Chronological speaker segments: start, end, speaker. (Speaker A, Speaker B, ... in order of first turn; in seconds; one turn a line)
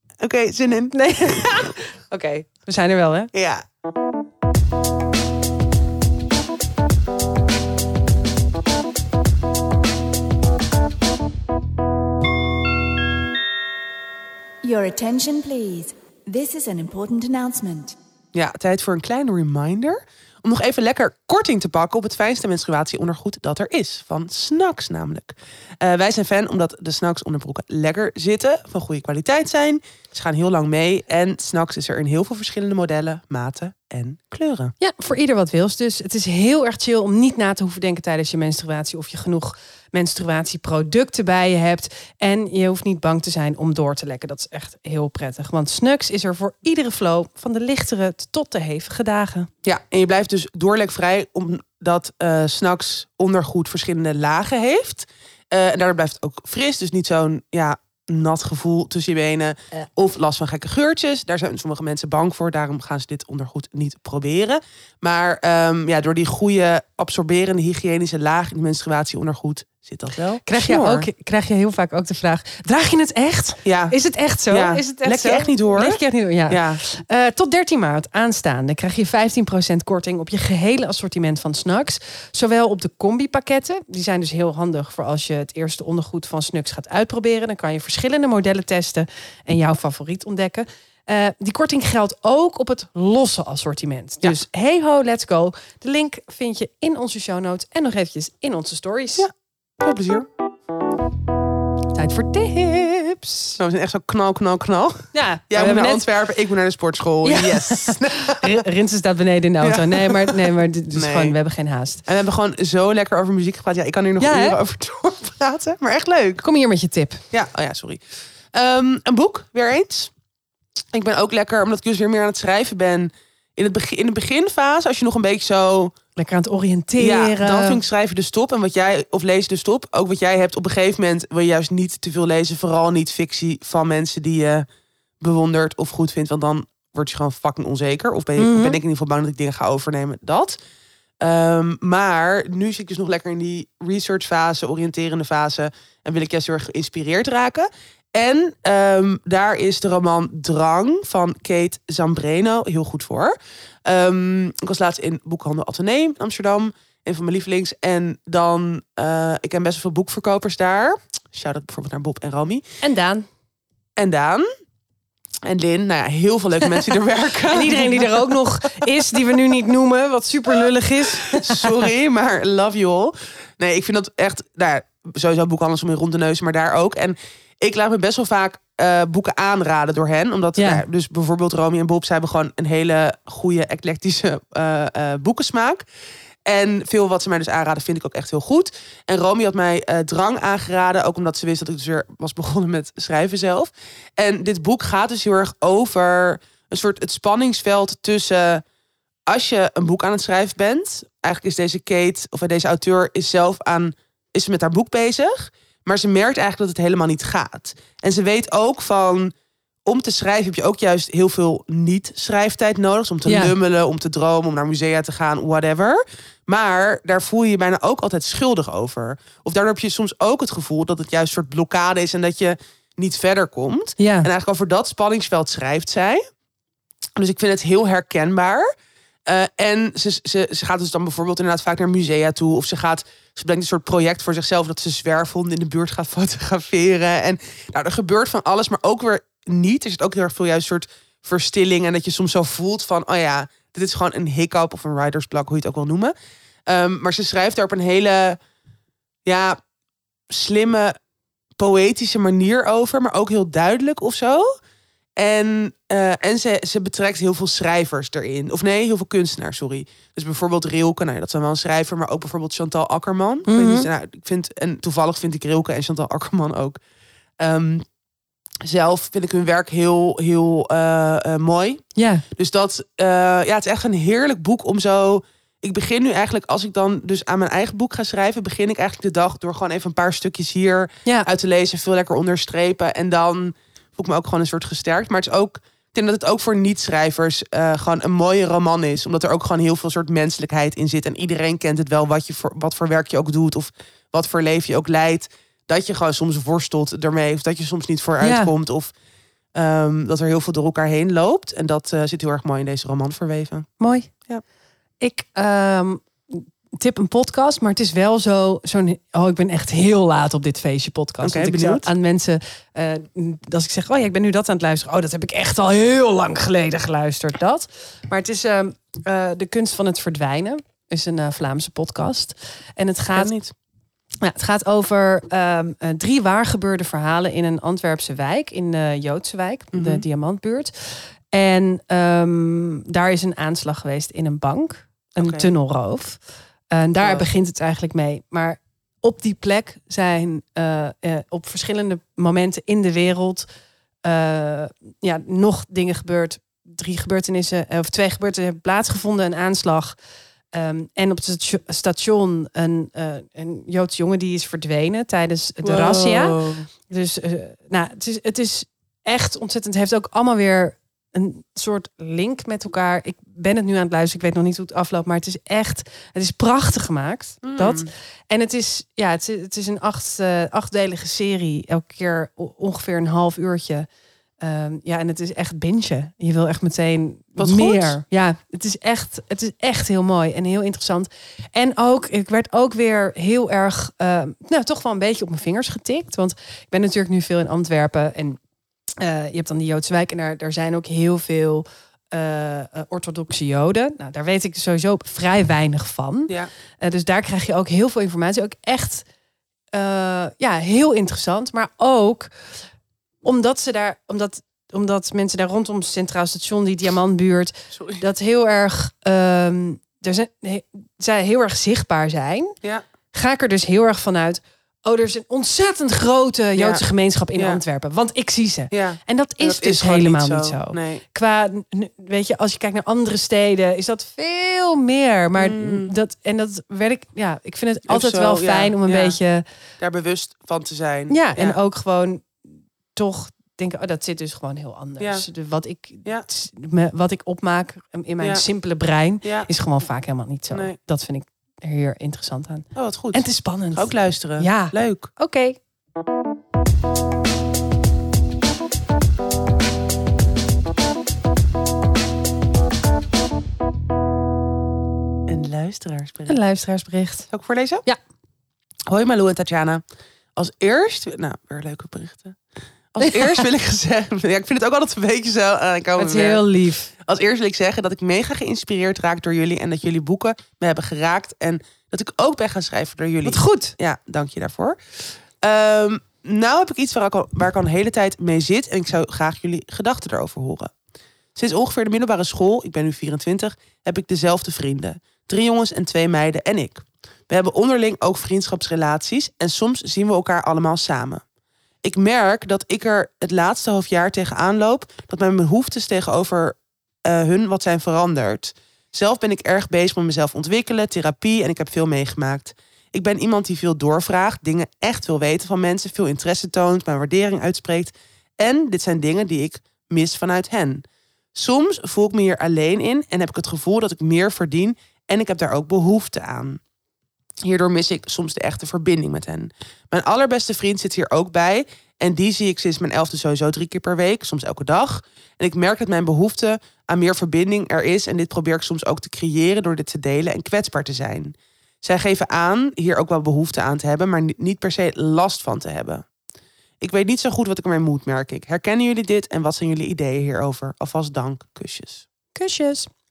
Speaker A: 0.2-1.5
Speaker B: 0.9-3.3
Speaker A: 3.3-3.6
Speaker C: 14.6-17.9
Speaker A: 18.3-34.7
Speaker B: 34.8-49.5
Speaker A: 49.6-71.1
Speaker B: 70.5-99.3
Speaker A: 73.6-73.9
Speaker A: 74.5-76.8
Speaker A: 99.2-100.3
Speaker B: 101.9-103.6
Speaker A: 103.6-108.5
Speaker B: 105.1-106.0
Speaker B: 107.2-112.0
Speaker A: 109.6-110.4
Speaker A: 110.9-111.3
Speaker A: 112.0-116.4
Speaker B: 114.2-114.6
Speaker B: 116.4-117.2
Speaker A: 117.3-120.1
Speaker A: 120.9-125.9
Speaker B: 126.2-127.8
Speaker A: 127.0-134.7
Speaker A: 135.2-140.6
Speaker B: 138.4-138.8
Speaker A: 141.2-162.6
Speaker B: 162.8-163.2
Speaker A: 164.0-164.4
Speaker A: 165.4-168.1
Speaker B: 167.5-171.8
Speaker A: 171.1-185.8
Speaker B: 180.6-180.8
Speaker A: 186.4-198.6
Speaker A: 199.3-209.3
Speaker A: 209.8-226.2
Speaker B: 213.2-213.5
Speaker B: 224.0-224.3
Speaker A: 227.2-228.7
Speaker A: 229.2-246.1
Speaker A: 246.7-248.4
Speaker A: 249.2-249.6
Speaker A: 250.3-250.9
Speaker A: 251.6-254.5
Speaker A: 255.2-266.8
Speaker B: 263.5-263.9
Speaker A: 267.4-267.9
Speaker A: 268.6-271.8
Speaker B: 271.9-272.2
Speaker A: 272.4-298.9
Speaker B: 298.2-298.5
Speaker A: 299.5-303.7
Speaker B: 303.8-304.1
Speaker B: 305.0-323.3
Speaker A: 311.2-311.9
Speaker A: 323.1-323.5
Speaker B: 324.2-343.4
Speaker A: 329.7-330.0
Speaker A: 335.2-335.5
Speaker A: 337.0-337.3
Speaker B: 344.0-349.9
Speaker B: 350.5-373.9
Speaker A: 355.6-356.7
Speaker A: 367.4-367.9
Speaker B: 374.4-388.4
Speaker A: 377.4-378.0
Speaker B: 389.0-399.1
Speaker B: 399.7-402.5
Speaker B: 403.2-412.6
Speaker A: 407.7-408.0
Speaker B: 413.1-429.4
Speaker A: 416.6-416.8
Speaker A: 417.4-417.6
Speaker A: 418.7-421.0
Speaker A: 425.4-425.9
Speaker A: 427.9-429.2
Speaker A: 429.8-431.6
Speaker B: 431.1-445.6
Speaker A: 439.2-439.5
Speaker A: 442.7-445.1
Speaker A: 455.3-456.4
Speaker B: 456.3-457.3
Speaker A: 457.3-457.8
Speaker A: 458.9-459.8
Speaker A: 460.4-462.4
Speaker A: 462.9-466.4
Speaker B: 463.0-463.4
Speaker B: 466.0-466.9
Speaker A: 467.0-480.7
Speaker B: 473.2-473.7
Speaker A: 481.3-491.2
Speaker A: 491.8-516.6
Speaker A: 517.4-536.0
Speaker A: 536.8-542.0
Speaker B: 542.3-542.9